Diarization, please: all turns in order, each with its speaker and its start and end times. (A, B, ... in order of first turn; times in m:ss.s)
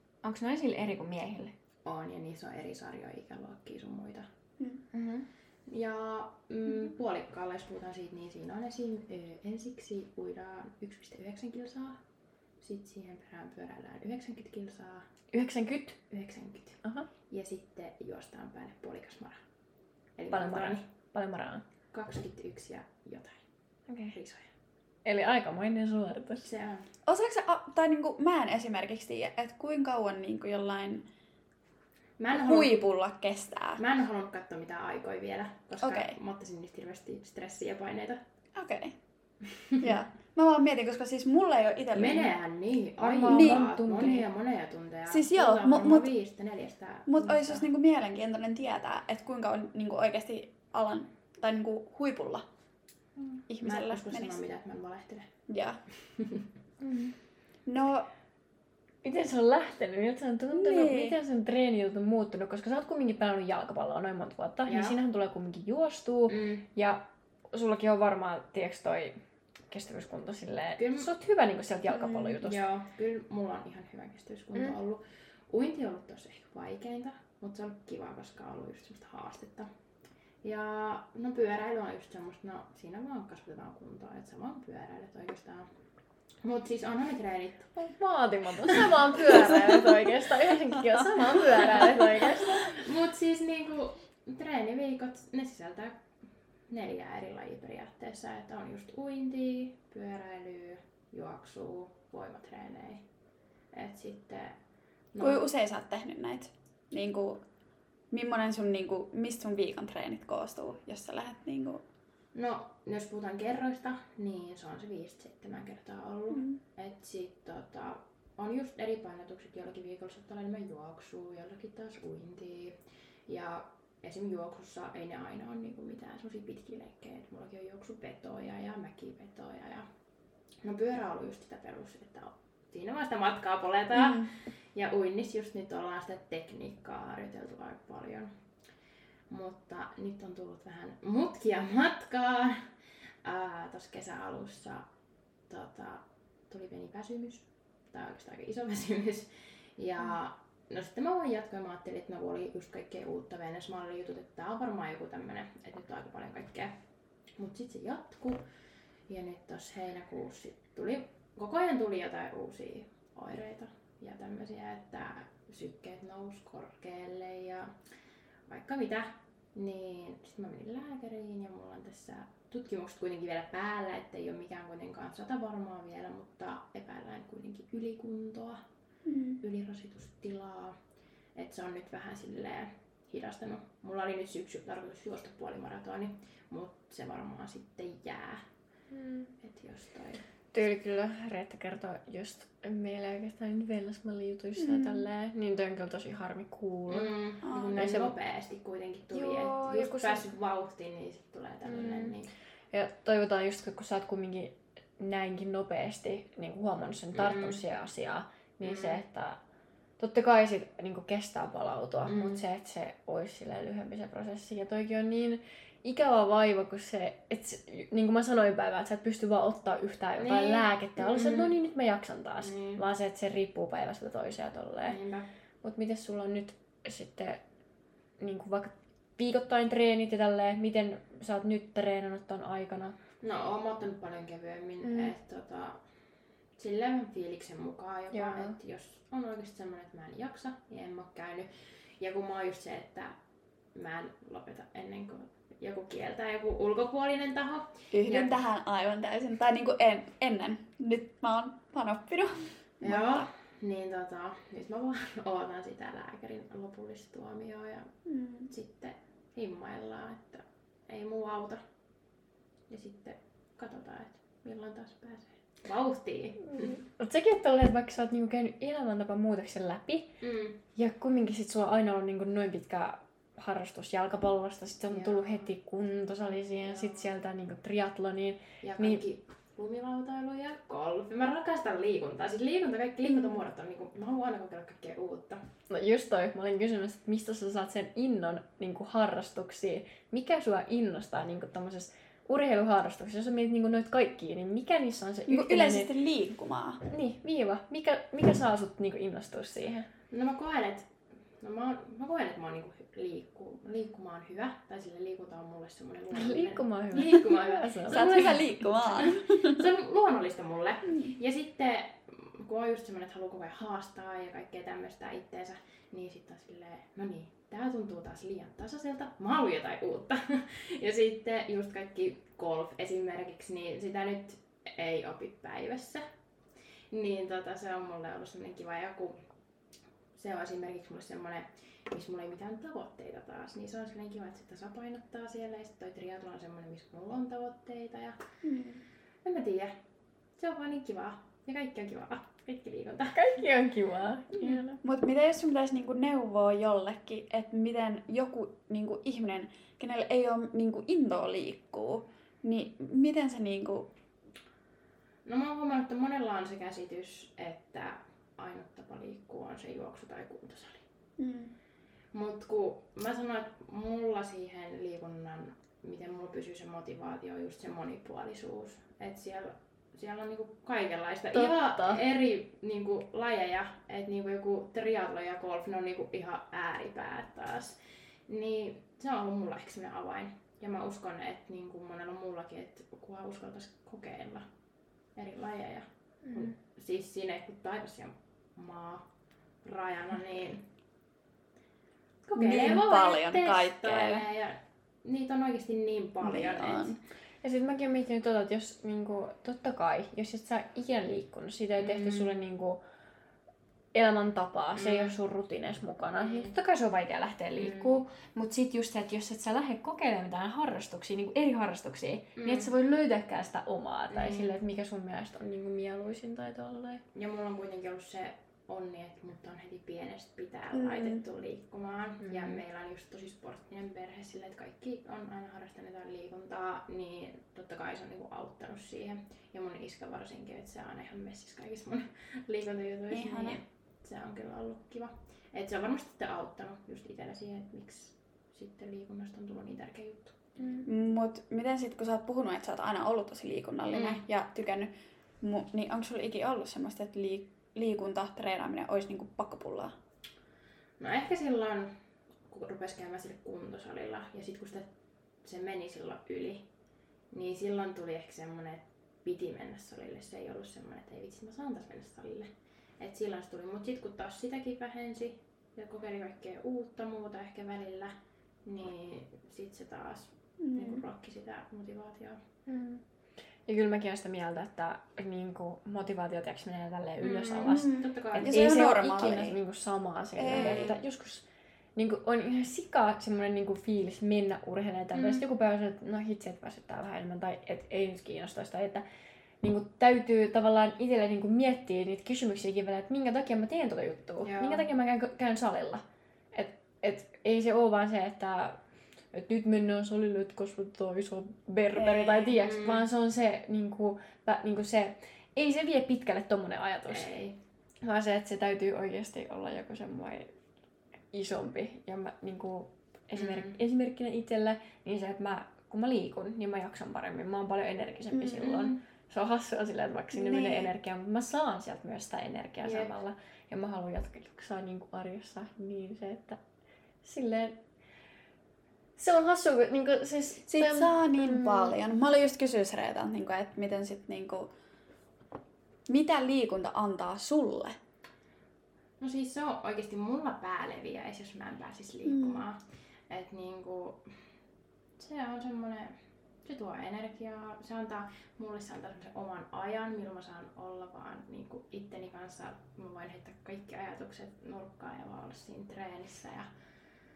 0:00.2-0:01.5 A
0:01.8-0:04.3 B
0:04.9-0:05.3 A
0:05.7-0:12.0 B
0:12.6-0:15.1 B
0:15.3-0:16.0 A
0:16.1-0:19.4 B
0:20.2-0:20.8 B
0:20.3-0:21.6 A
0:21.9-0:23.4 B
0:23.9-0:24.1 A
0:24.1-0:24.5 B
0:25.0-0:26.5 A
0:26.4-0:26.9 B
0:27.0-0:31.0 C
0:32.2-0:32.9 B
0:32.3-0:33.8 C
0:33.8-0:38.2 B
0:35.8-0:36.2 C
0:38.5-0:39.0 C
0:39.8-0:42.3 C
0:41.9-0:47.7 B
0:43.0-0:44.3 A
0:43.3-0:43.7 C
0:45.1-0:46.1 C
0:47.1-0:52.4 C
0:53.2-0:55.3 B
0:53.5-0:54.4 C
0:55.5-0:55.8 C
0:56.2-0:56.4 B
0:56.8-0:57.1 A
0:57.6-0:58.1 C
0:59.0-1:12.7 A
1:00.5-1:01.2 C
1:04.6-1:05.0 B
1:06.3-1:06.6 B
1:10.8-1:11.1 B
1:11.9-1:12.4 C
1:12.4-1:19.7 B
1:20.4-1:25.7 B
1:26.4-1:27.7 B
1:27.8-1:32.8 A
1:32.6-1:36.0 B
1:36.7-1:43.0 B
1:43.7-1:44.6 B
1:45.1-1:45.5 B
1:45.2-1:47.4 C
1:48.1-1:51.8 C
1:52.3-2:09.8 B
2:10.6-2:18.3 B
2:13.9-2:14.3 C
2:19.3-2:22.6 B
2:23.2-2:24.9 B
2:25.5-2:36.8 B
2:37.4-2:38.4 B
2:39.1-2:47.8 B
2:48.5-2:58.6 B
2:59.0-2:59.4 C
2:59.4-3:00.8 B
3:01.3-3:08.4 B
3:08.9-3:09.3 A
3:09.4-3:10.2 B
3:10.5-3:17.2 A
3:14.6-3:15.1 C
3:16.9-3:22.3 B
3:17.4-3:17.7 C
3:17.7-3:18.1 A
3:19.1-3:20.3 A
3:21.6-3:22.2 A
3:22.7-3:29.4 A
3:27.1-3:27.6 B
3:28.6-3:29.0 B
3:30.0-3:45.0 A
3:32.0-3:32.4 B
3:40.2-3:41.5 B
3:42.4-3:42.8 B
3:44.8-3:45.3 B
3:45.6-3:47.4 A
3:48.2-3:53.0 A
3:53.2-3:55.8 B
3:56.6-4:03.2 B
3:58.1-3:58.6 A
4:03.7-4:08.4 B
4:07.9-4:13.3 C
4:12.8-4:17.9 B
4:18.1-4:18.5 C
4:18.5-4:21.6 B
4:22.7-4:26.8 B
4:26.5-4:30.2 A
4:30.2-4:30.6 B
4:30.7-4:39.0 A
4:34.9-4:35.5 B
4:36.6-4:37.0 B
4:38.6-4:45.5 B
4:45.7-4:55.9 A
4:55.3-4:56.8 C
4:56.8-4:59.9 A
5:00.1-5:26.0 B
5:06.1-5:08.5 A
5:07.9-5:09.6 C
5:26.9-5:29.2 B
5:30.1-5:38.2 B
5:38.4-5:38.8 C
5:39.2-5:39.7 B
5:40.4-5:43.4 B
5:43.1-5:44.8 A
5:44.8-5:53.9 C
5:55.2-6:00.8 B
6:01.2-6:01.5 C
6:02.1-6:24.4 B
6:11.3-6:12.0 A
6:25.2-6:29.1 B
6:29.6-6:30.7 B
6:32.3-6:37.0 B
6:32.4-6:34.2 C
6:36.2-6:37.0 C
6:37.4-6:42.8 A
6:41.8-6:42.3 B
6:43.9-6:57.0 A
6:44.7-6:45.1 B
6:46.2-6:46.5 B
6:47.6-6:48.0 B
6:52.4-6:52.7 B
6:54.1-6:54.6 B
6:57.1-7:20.9 B
7:00.7-7:01.2 C
7:02.2-7:02.6 A
7:13.1-7:13.6 C
7:20.8-7:29.9 C
7:23.9-7:24.2 B
7:31.0-7:31.9 B
7:32.5-7:34.9 B
7:35.4-7:36.7 B
7:37.3-7:48.1 B
7:48.6-7:52.4 B
7:50.6-7:51.0 C
7:52.7-7:53.0 A
7:53.7-8:09.0 A
7:57.2-7:58.8 B
7:57.6-7:59.5 C
8:00.4-8:00.9 C
8:00.5-8:01.0 B
8:05.1-8:05.4 B
8:09.6-8:18.8 A
8:14.4-8:14.8 B
8:19.3-8:27.3 A
8:21.9-8:23.0 B
8:27.1-8:27.6 B
8:28.0-8:30.5 A
8:31.3-8:46.6 A
8:33.3-8:33.8 B
8:38.3-8:38.8 C
8:38.6-8:39.0 B
8:40.3-8:40.9 C
8:42.8-8:43.1 B
8:47.2-8:47.8 A
8:49.2-8:51.9 A
8:50.7-8:54.7 C
8:56.1-8:58.0 C
8:59.2-9:04.3 B
9:02.2-9:02.6 C
9:05.2-9:16.7 B